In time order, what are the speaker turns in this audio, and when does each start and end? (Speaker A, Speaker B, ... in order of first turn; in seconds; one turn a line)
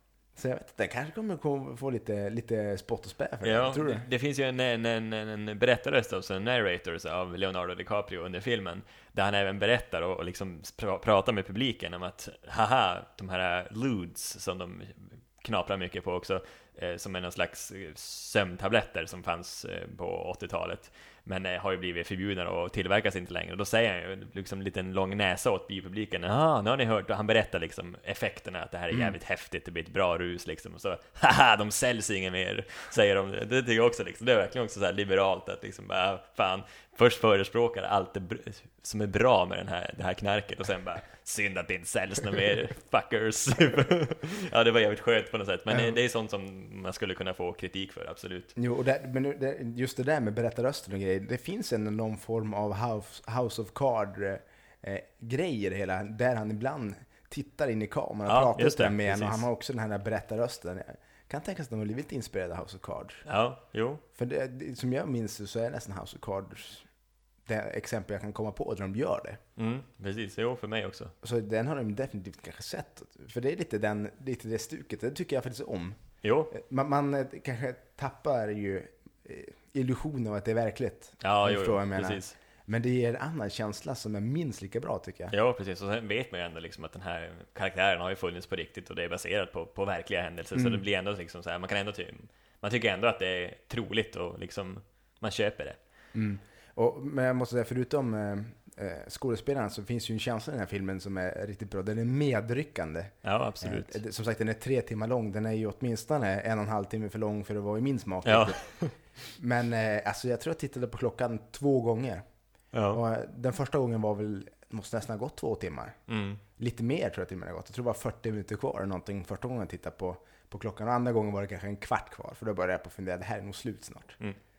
Speaker A: 0.4-4.1
Speaker B: 3.4-48.5
Speaker A: 45.7-46.0
Speaker A: 48.6-63.2
Speaker B: 58.3-59.5
Speaker B: 63.2-64.0
Speaker A: 64.2-66.9
Speaker A: 67.5-69.4
Speaker B: 69.6-71.1
Speaker A: 71.2-76.0
Speaker B: 76.2-76.5
Speaker A: 76.5-85.3
Speaker B: 81.2-82.3
Speaker B: 85.3-95.8
Speaker A: 90.5-90.8
Speaker A: 96.1-108.7
Speaker B: 103.2-104.0
Speaker B: 108.2-108.9
Speaker A: 109.4-112.2
Speaker B: 112.7-113.0
Speaker A: 112.9-116.0
Speaker B: 116.1-116.4
Speaker A: 116.6-124.2